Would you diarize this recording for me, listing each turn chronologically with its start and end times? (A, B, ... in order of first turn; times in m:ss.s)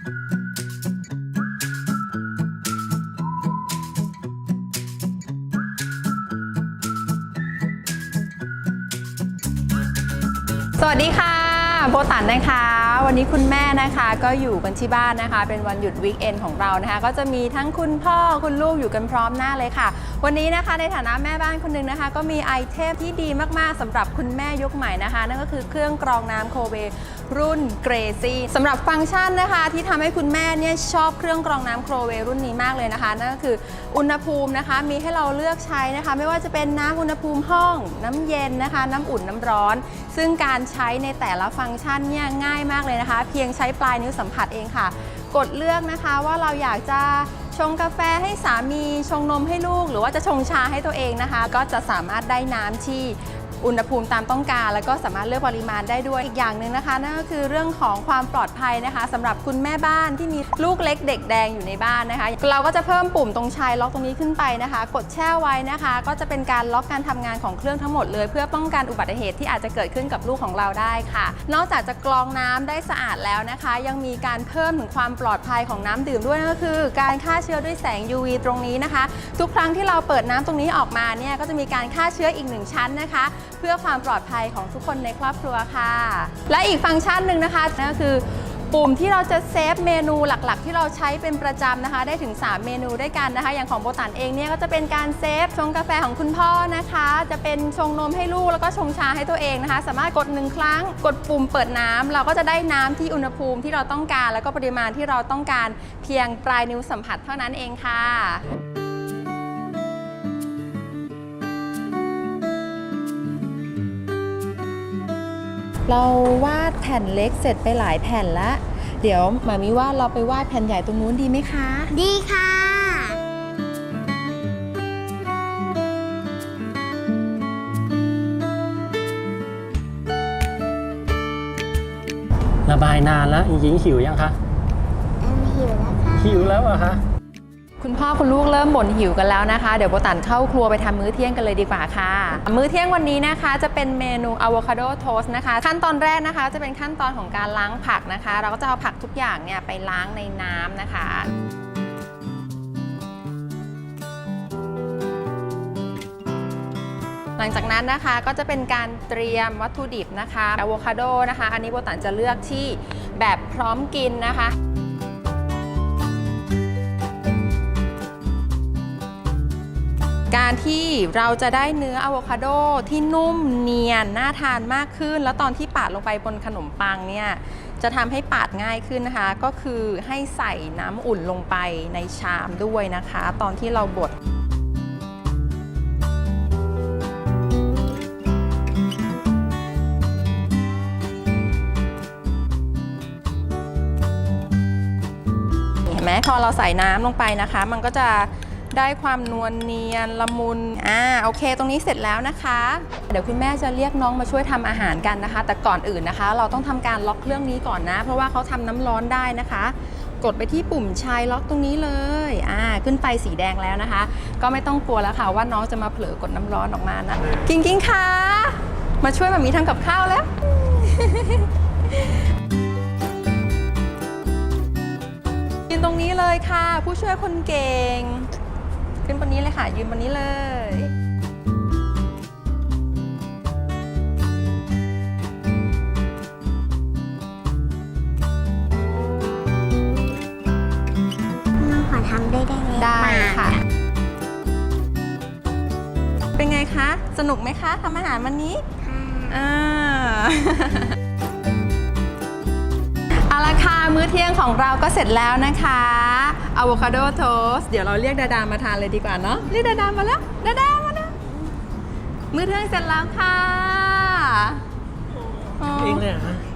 0:10.8-1:48.4 A
1:55.9-2:01.9 A
2:01.9-2:03.2 B
2:12.7-2:14.4 C
2:15.2-2:16.6 B
2:16.2-2:17.0 C
2:17.8-2:31.3 A
2:37.4-2:44.6 A
2:50.3-3:04.2 A
3:15.9-3:42.1 A
3:45.7-3:48.3 A
3:49.0-3:50.9 A
4:01.6-4:03.6 B
4:02.8-4:03.6 A
4:06.4-4:08.7 A
4:08.8-4:09.4 B
4:09.3-4:11.0 A
4:13.2-4:21.2 A
4:22.3-4:24.6 A
4:25.6-4:26.1 A
4:25.6-4:26.4 C